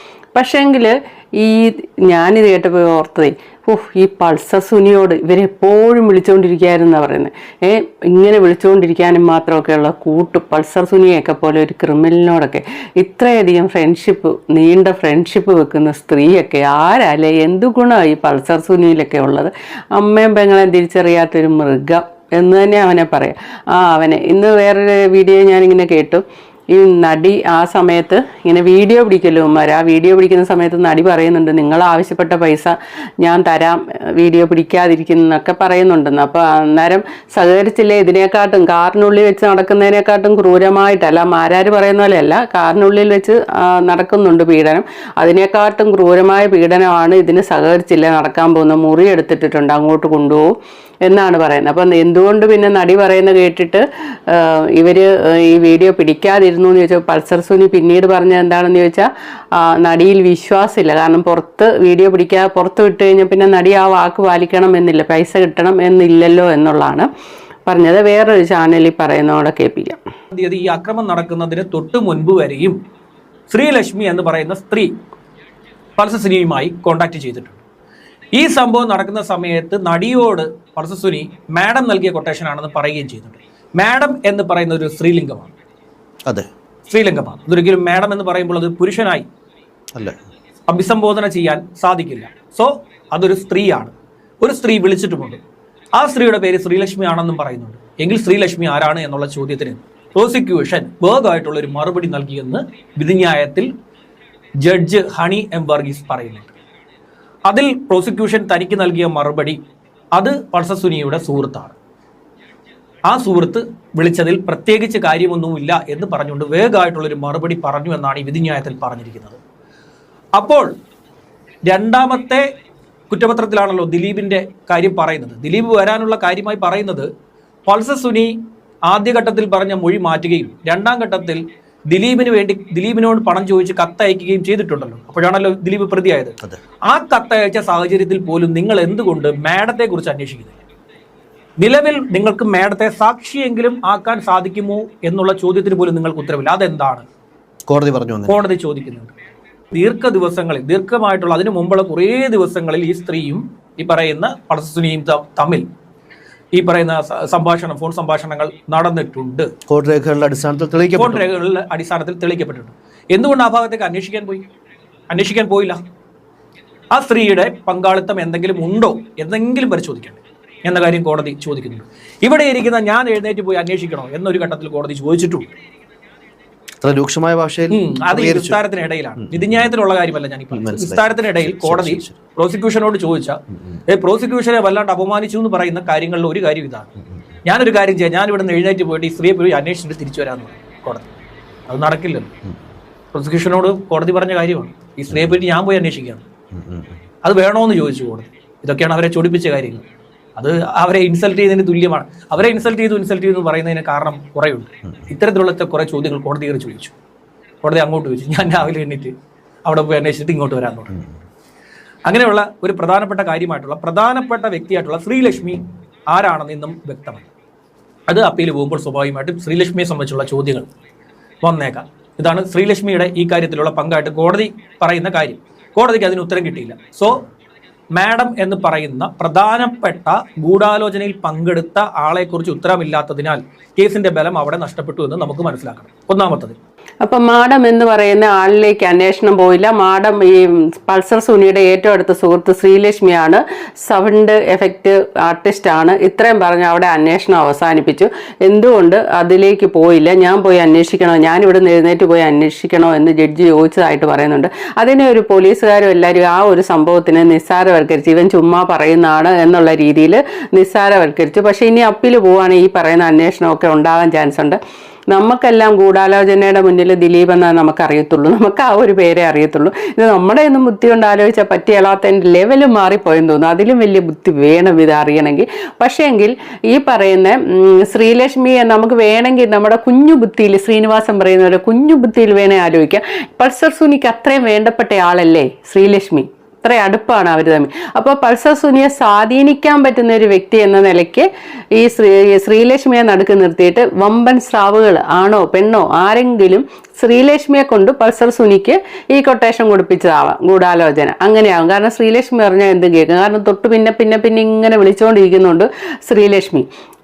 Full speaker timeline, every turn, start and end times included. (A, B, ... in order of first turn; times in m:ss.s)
0:00.3-0:50.5 A
0:51.0-1:07.1 A
1:07.6-1:10.0 A
1:10.3-1:12.8 B
1:13.5-1:14.9 B
1:16.0-1:17.6 B
1:18.3-1:25.5 B
1:26.9-1:29.2 B
1:30.7-1:35.4 B
1:36.0-1:43.7 B
1:44.6-1:46.5 B
1:47.5-1:49.6 B
1:50.2-1:51.7 B
1:53.1-1:59.4 B
2:00.4-2:00.7 B
2:01.7-2:02.4 B
2:03.1-2:07.1 B
2:07.7-2:08.4 B
2:08.9-2:16.3 B
2:16.9-2:20.6 B
2:21.6-2:27.0 B
2:27.7-2:28.4 C
2:28.2-2:29.1 B
2:29.7-2:35.6 B
2:36.5-2:39.5 B
2:39.7-2:41.2 C
2:41.0-2:44.4 B
2:45.1-2:45.8 B
2:46.9-2:55.5 B
2:56.8-2:58.6 C
2:57.7-3:06.9 B
2:59.2-2:59.7 C
3:00.5-3:02.1 C
3:07.4-3:11.1 B
3:11.7-3:12.3 B
3:13.1-3:16.2 B
3:16.5-3:17.0 C
3:17.2-3:19.8 B
3:20.4-3:26.9 B
3:27.6-3:29.1 B
3:29.6-3:30.9 B
3:32.0-3:37.2 B
3:38.1-3:40.7 B
3:41.4-3:47.2 B
3:48.0-3:56.6 B
3:57.0-4:24.6 A
4:25.1-5:06.7 A